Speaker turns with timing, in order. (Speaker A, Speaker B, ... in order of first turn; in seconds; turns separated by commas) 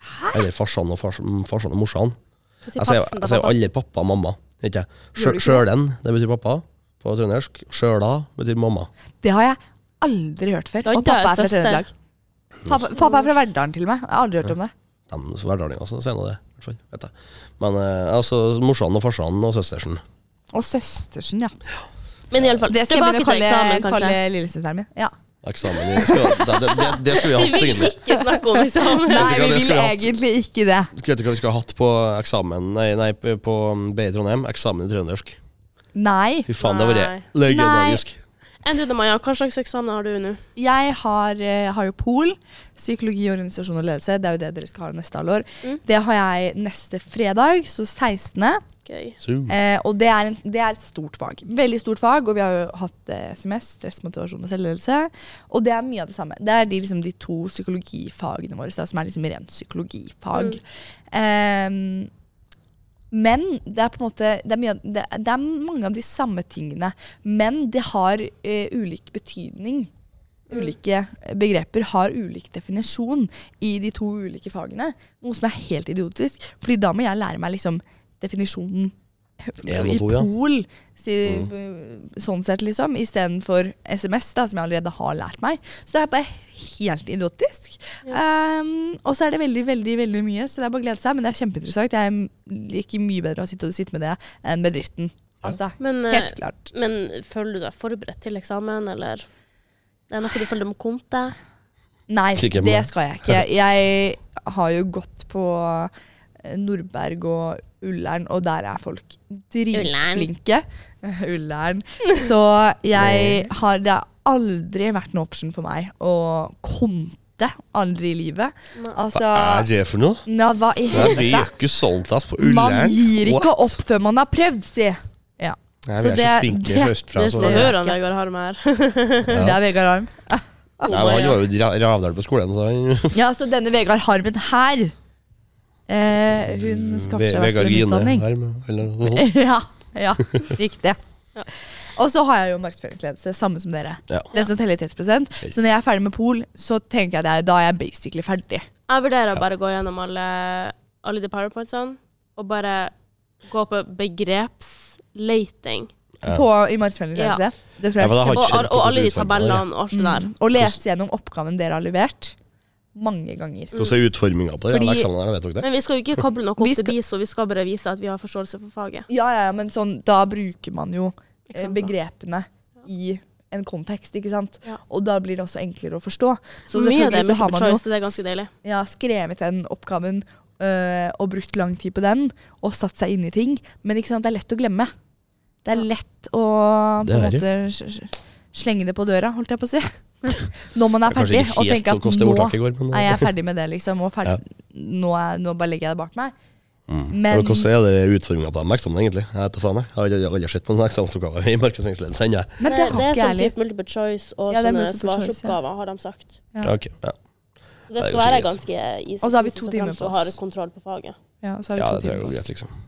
Speaker A: 0.1-0.4, Speaker B: 0.3-2.2, Speaker C: 2.7-3.5, Speaker B: 2.8-8.9, Speaker A: 5.2-5.7, Speaker A: 9.2-11.9, Speaker C: 10.8-11.9, Speaker A: 12.7-14.7, Speaker C: 13.0-13.2, Speaker B: 15.1-20.0, Speaker A: 20.5-21.6, Speaker C: 22.3-24.2, Speaker A: 22.7-25.1, Speaker B: 25.4-28.0, Speaker A: 25.7-26.8, Speaker C: 26.5-29.4, Speaker A: 28.8-30.9, Speaker B: 29.1-30.1, Speaker B: 30.9-35.4, Speaker A: 36.0-36.5, Speaker B: 36.5-38.2, Speaker C: 36.6-37.3, Speaker A: 37.4-38.0, Speaker C: 38.6-40.4, Speaker A: 40.6-48.6, Speaker C: 48.9-49.2, Speaker B: 49.2-49.5, Speaker A: 49.5-62.1, Speaker C: 60.3-60.6, Speaker A: 63.1-69.9, Speaker C: 70.5-70.8, Speaker A: 70.5-78.9, Speaker A: 79.5-96.7, Speaker B: 79.7-80.3, Speaker C: 95.8-99.3, Speaker C: 100.1-101.4, Speaker A: 102.1-105.9, Speaker B: 102.4-103.4, Speaker A: 106.4-119.7, Speaker C: 109.7-110.3, Speaker B: 113.0-113.5, Speaker B: 119.1-120.2, Speaker A: 120.3-121.5, Speaker B: 120.9-123.7, Speaker A: 122.4-128.0, Speaker B: 125.9-127.8, Speaker C: 127.2-129.4, Speaker B: 129.2-129.6, Speaker A: 129.3-131.3, Speaker C: 130.9-131.4, Speaker B: 130.9-133.2, Speaker A: 133.1-134.9, Speaker A: 135.9-138.2, Speaker B: 136.6-139.3, Speaker A: 139.1-141.0, Speaker A: 141.9-148.7, Speaker C: 148.9-152.9, Speaker C: 153.5-155.9, Speaker A: 156.3-158.6, Speaker C: 157.2-157.4, Speaker B: 158.0-159.7, Speaker C: 158.3-160.3, Speaker A: 159.9-162.4, Speaker A: 162.9-163.7, Speaker B: 163.8-165.7, Speaker A: 164.7-165.1, Speaker C: 165.6-169.1, Speaker A: 166.6-166.9, Speaker A: 169.1-184.9, Speaker C: 171.5-171.9, Speaker C: 176.7-178.5, Speaker A: 185.7-196.3, Speaker B: 187.0-187.4, Speaker B: 191.1-193.3, Speaker B: 196.9-202.6, Speaker A: 197.1-197.7, Speaker A: 202.6-203.5, Speaker C: 202.7-206.4, Speaker A: 204.5-205.6, Speaker B: 206.6-207.2, Speaker C: 207.9-211.2, Speaker B: 208.0-208.6, Speaker A: 209.2-210.4, Speaker A: 211.4-212.5, Speaker B: 211.8-212.7